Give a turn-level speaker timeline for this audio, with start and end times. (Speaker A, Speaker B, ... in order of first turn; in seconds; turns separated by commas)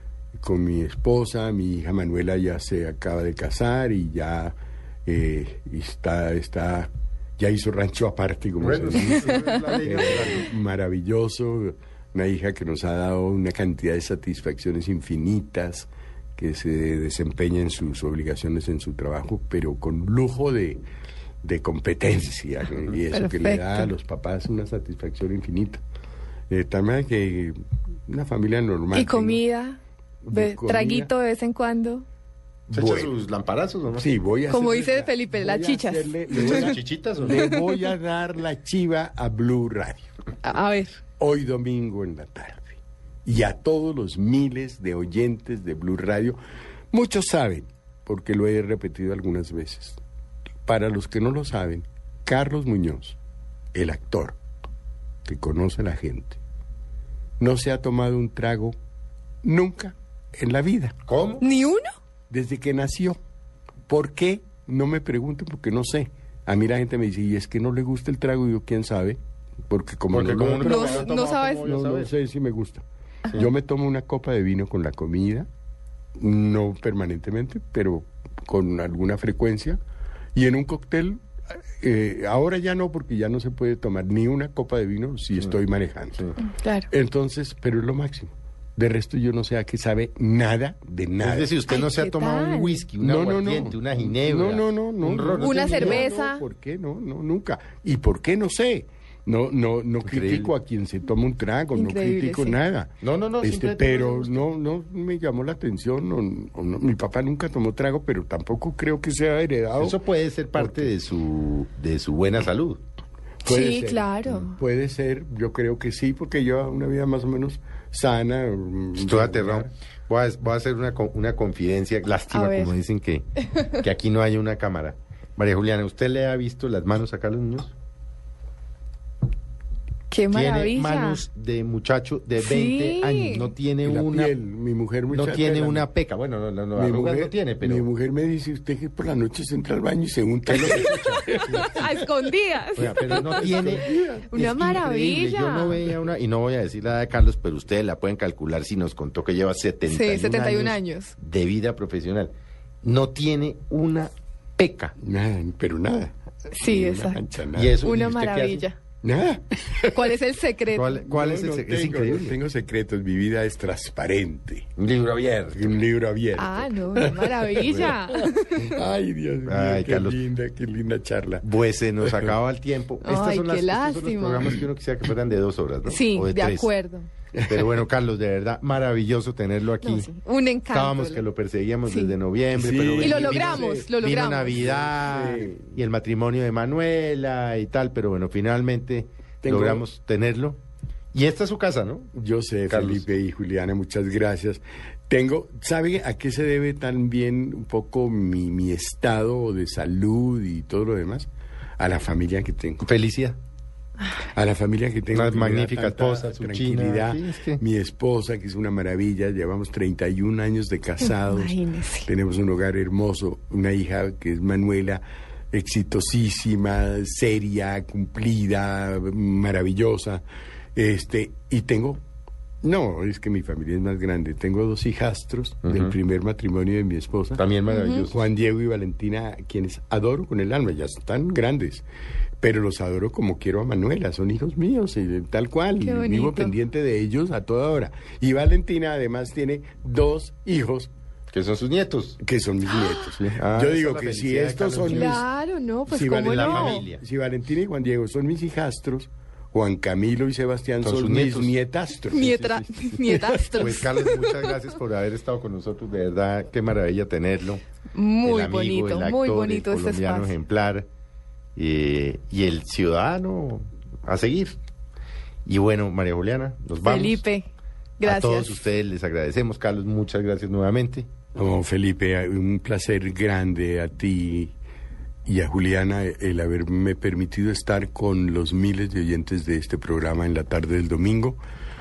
Speaker A: 0.4-20.8, Speaker B: 8.6-10.5, Speaker A: 21.4-25.8, Speaker C: 23.1-23.9, Speaker A: 26.5-29.4, Speaker C: 28.9-29.8, Speaker A: 30.2-31.1, Speaker C: 30.3-32.0, Speaker B: 32.7-34.1, Speaker A: 32.7-33.1, Speaker A: 34.0-40.1, Speaker C: 34.5-36.8, Speaker B: 36.3-37.5, Speaker C: 37.3-37.9, Speaker C: 40.4-41.0, Speaker A: 41.2-46.4, Speaker A: 46.9-50.0, Speaker A: 50.7-53.2, Speaker A: 53.7-54.4, Speaker A: 55.3-56.4, Speaker A: 57.4-58.7, Speaker A: 59.4-61.0, Speaker B: 61.0-61.5, Speaker C: 61.4-61.9, Speaker A: 62.3-63.2, Speaker A: 63.9-72.8, Speaker B: 70.1-72.1, Speaker C: 70.6-71.6, Speaker A: 73.3-75.5, Speaker A: 76.2-79.8, Speaker A: 80.3-86.2, Speaker C: 86.4-86.9, Speaker A: 86.9-91.5, Speaker B: 91.2-96.0, Speaker C: 91.7-92.7, Speaker A: 93.0-110.0, Speaker C: 95.4-96.5, Speaker B: 100.0-100.5, Speaker C: 101.7-102.6, Speaker B: 103.0-104.5, Speaker B: 109.8-112.8, Speaker A: 110.5-110.9, Speaker A: 113.4-119.7, Speaker C: 113.5-114.6, Speaker B: 119.0-127.7, Speaker C: 122.3-122.7, Speaker C: 130.1-131.2, Speaker B: 130.3-134.3, Speaker C: 132.4-133.5, Speaker A: 133.8-135.9, Speaker B: 135.1-137.9, Speaker A: 136.7-141.9, Speaker B: 140.5-141.8, Speaker C: 141.6-145.8, Speaker B: 142.8-152.3, Speaker A: 142.8-144.3, Speaker C: 149.9-151.2, Speaker B: 152.8-154.9, Speaker A: 155.0-157.8, Speaker C: 156.5-157.2, Speaker B: 157.5-158.7, Speaker C: 157.8-158.8, Speaker A: 159.0-160.2, Speaker C: 159.9-161.0, Speaker B: 160.7-162.4, Speaker A: 160.9-164.7, Speaker B: 164.8-165.8, Speaker A: 165.5-171.4, Speaker C: 166.3-168.8, Speaker B: 167.6-168.0, Speaker B: 169.4-170.2, Speaker B: 171.4-176.7, Speaker A: 172.0-172.3, Speaker C: 173.0-174.7, Speaker C: 175.9-177.1, Speaker A: 177.3-177.8, Speaker B: 177.5-180.1, Speaker C: 179.8-181.3, Speaker B: 180.7-190.6, Speaker C: 181.8-182.2, Speaker A: 182.5-183.9, Speaker C: 183.0-184.7, Speaker A: 184.4-185.7, Speaker A: 189.4-189.8, Speaker B: 191.1-192.1, Speaker A: 192.1-201.3, Speaker B: 192.7-193.0, Speaker A: 201.8-202.9, Speaker B: 202.8-203.4, Speaker A: 204.3-220.2, Speaker B: 205.1-207.6, Speaker C: 211.0-212.1, Speaker A: 220.8-222.0, Speaker A: 222.6-227.4, Speaker B: 225.6-225.9, Speaker B: 227.3-228.2, Speaker C: 227.7-228.1, Speaker A: 228.1-231.8, Speaker A: 232.4-240.9, Speaker C: 235.8-236.5, Speaker B: 241.3-242.2, Speaker A: 242.2-245.3, Speaker B: 243.2-245.2, Speaker C: 244.9-246.8, Speaker A: 245.9-252.3, Speaker B: 246.1-247.0, Speaker B: 250.8-251.6, Speaker C: 252.1-254.7, Speaker B: 252.1-253.0, Speaker A: 253.1-254.0, Speaker B: 253.5-257.6, Speaker C: 257.9-260.3, Speaker B: 258.2-260.9, Speaker B: 261.6-264.6, Speaker B: 265.5-267.2, Speaker C: 266.8-267.5, Speaker C: 268.0-268.6, Speaker B: 268.0-271.1, Speaker A: 271.4-274.5, Speaker A: 275.2-281.4